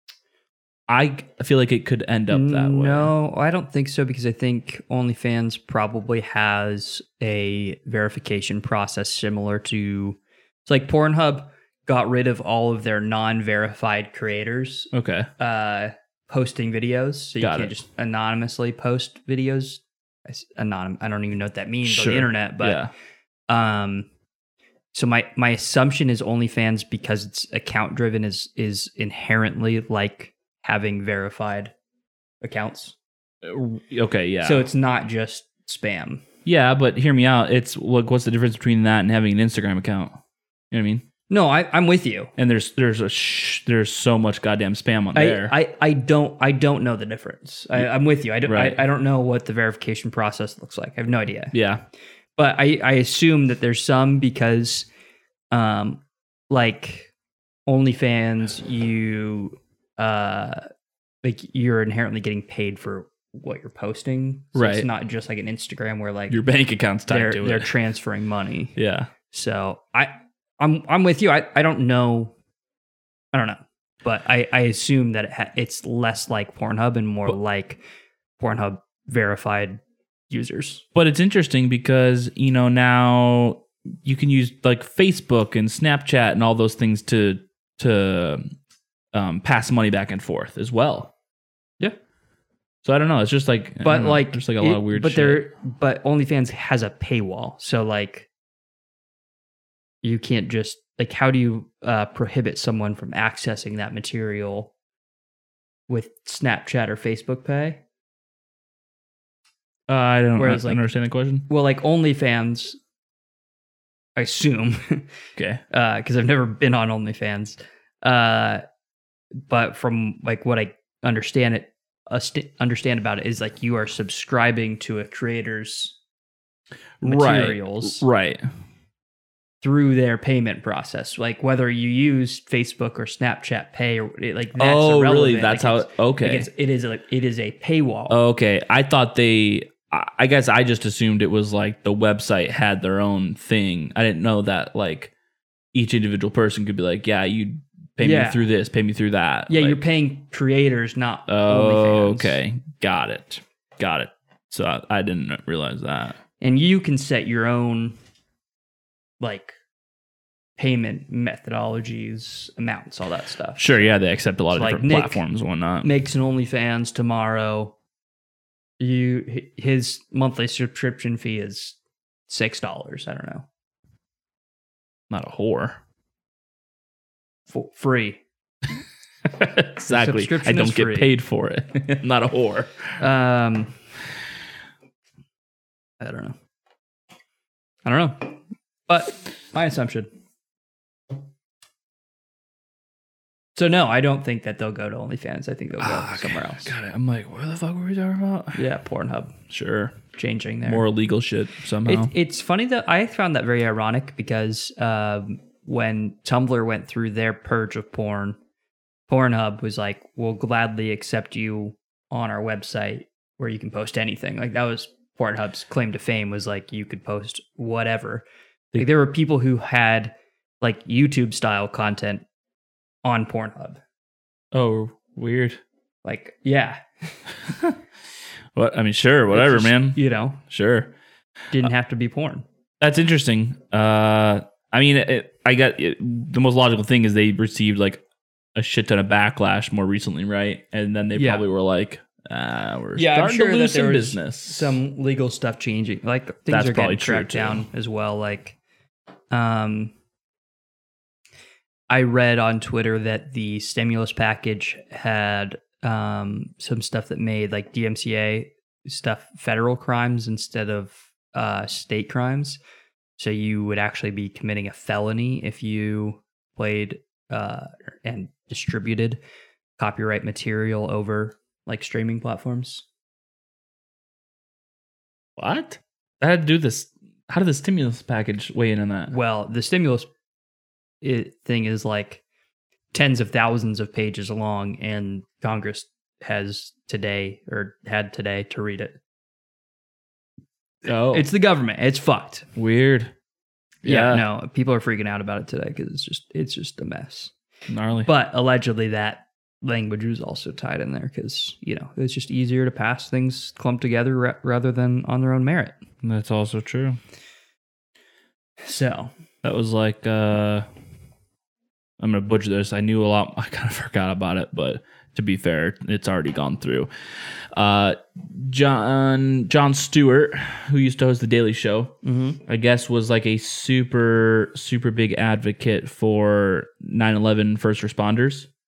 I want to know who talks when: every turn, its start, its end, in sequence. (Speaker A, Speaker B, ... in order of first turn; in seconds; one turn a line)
Speaker A: 0.9-3.1
Speaker B: 2.3-22.8
Speaker A: 14.9-15.3
Speaker A: 17.4-17.7
Speaker A: 21.9-22.9
Speaker B: 23.5-24.1
Speaker B: 24.9-31.7
Speaker B: 32.4-33.0
Speaker A: 33.4-34.7
Speaker B: 34.4-36.2
Speaker A: 36.5-40.1
Speaker A: 40.7-41.0
Speaker B: 41.3-42.3
Speaker A: 42.4-45.5
Speaker B: 45.1-51.5
Speaker A: 48.5-48.8
Speaker A: 51.5-51.8
Speaker B: 52.4-54.9
Speaker B: 55.5-57.1
Speaker B: 57.7-60.6
Speaker B: 61.2-66.4
Speaker A: 64.5-64.9
Speaker A: 66.3-67.7
Speaker B: 67.1-68.8
Speaker A: 68.8-69.1
Speaker B: 69.3-72.3
Speaker B: 73.3-77.8
Speaker B: 78.4-80.8
Speaker A: 81.0-88.5
Speaker A: 89.1-91.1
Speaker A: 92.8-95.5
Speaker B: 93.8-98.3
Speaker B: 100.0-104.7
Speaker B: 105.9-107.8
Speaker A: 109.9-111.5
Speaker B: 110.4-110.8
Speaker B: 111.5-112.8
Speaker B: 114.2-115.1
Speaker A: 115.4-115.6
Speaker B: 115.7-118.6
Speaker B: 119.5-126.0
Speaker A: 127.0-128.5
Speaker B: 127.0-128.1
Speaker B: 129.6-138.2
Speaker A: 134.6-136.5
Speaker A: 138.1-145.1
Speaker A: 145.7-149.8
Speaker B: 148.0-148.4
Speaker B: 149.5-152.4
Speaker A: 151.3-156.2
Speaker B: 156.4-158.0
Speaker B: 159.2-159.6
Speaker B: 160.6-163.8
Speaker A: 163.6-165.9
Speaker B: 164.5-165.2
Speaker B: 165.8-167.8
Speaker B: 168.8-171.8
Speaker B: 172.3-173.5
Speaker A: 175.1-175.8
Speaker B: 177.5-178.2
Speaker A: 179.3-182.9
Speaker B: 179.9-181.1
Speaker B: 183.0-183.8
Speaker B: 186.0-186.4
Speaker B: 187.8-188.4
Speaker B: 188.9-190.1
Speaker B: 193.6-196.7
Speaker A: 195.8-198.6
Speaker B: 198.6-199.3
Speaker A: 199.5-200.0
Speaker B: 200.1-200.9
Speaker A: 200.6-202.1
Speaker B: 201.8-208.4
Speaker B: 209.1-218.2
Speaker B: 218.8-222.2
Speaker B: 223.0-223.8
Speaker A: 224.5-225.6
Speaker B: 226.0-226.8
Speaker A: 227.5-227.8
Speaker A: 228.5-230.9
Speaker B: 229.3-230.4
Speaker B: 231.5-232.4
Speaker A: 232.8-238.0
Speaker A: 238.6-244.8
Speaker B: 241.2-241.4
Speaker B: 243.0-248.6
Speaker A: 246.5-247.7
Speaker B: 249.3-249.9
Speaker B: 251.9-262.6
Speaker B: 263.2-269.2
Speaker B: 269.8-272.9
Speaker A: 275.4-279.1
Speaker B: 279.1-280.1
Speaker B: 281.0-282.2
Speaker B: 282.9-289.0
Speaker A: 290.9-291.3
Speaker B: 291.1-292.5
Speaker A: 292.6-293.1
Speaker A: 293.8-294.2
Speaker B: 293.9-297.3
Speaker A: 297.7-298.1
Speaker B: 298.1-305.8
Speaker A: 306.0-307.0
Speaker B: 308.6-309.1
Speaker A: 309.4-310.7
Speaker A: 312.0-328.5
Speaker B: 322.0-322.4